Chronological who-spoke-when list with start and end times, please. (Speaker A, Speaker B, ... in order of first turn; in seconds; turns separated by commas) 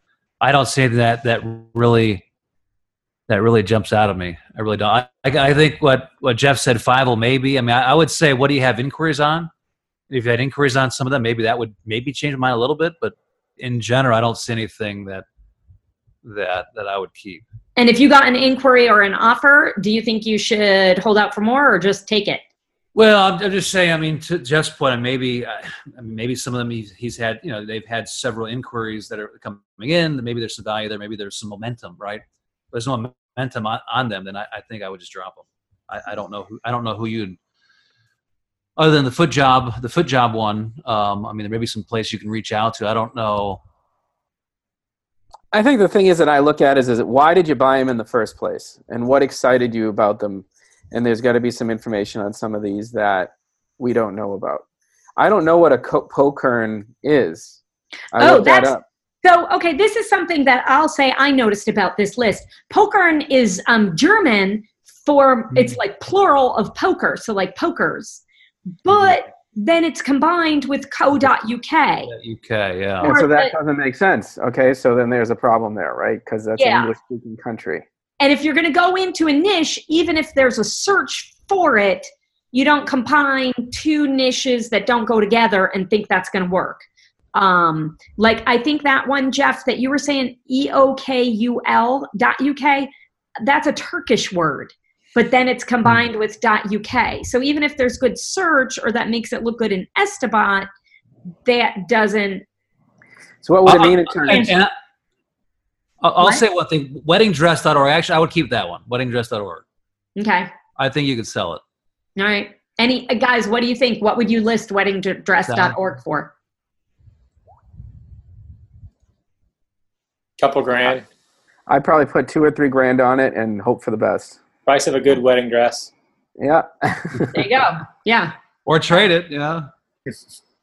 Speaker A: 0.4-2.2, Speaker A: 3.3-9.5, Speaker A: 10.1-15.2, Speaker A: 16.2-17.4, Speaker B: 17.8-22.4, Speaker A: 22.9-37.4, Speaker A: 38.8-43.6, Speaker C: 45.5-54.6, Speaker C: 55.2-57.6, Speaker C: 58.1-58.8, Speaker B: 58.2-68.2, Speaker B: 68.8-72.1, Speaker A: 72.1-73.2, Speaker C: 73.0-77.8, Speaker B: 73.0-73.5, Speaker B: 76.6-76.9, Speaker B: 78.2-100.7, Speaker B: 101.4-102.4, Speaker C: 103.4-104.5, Speaker A: 103.7-104.7, Speaker A: 106.0-109.6, Speaker B: 110.2-110.5, Speaker A: 110.8-111.6, Speaker B: 112.2-116.3, Speaker A: 115.5-115.8, Speaker D: 120.4-121.0, Speaker C: 121.7-124.4, Speaker D: 124.7-125.9, Speaker C: 126.4-127.5, Speaker B: 127.3-128.3, Speaker A: 128.7-129.7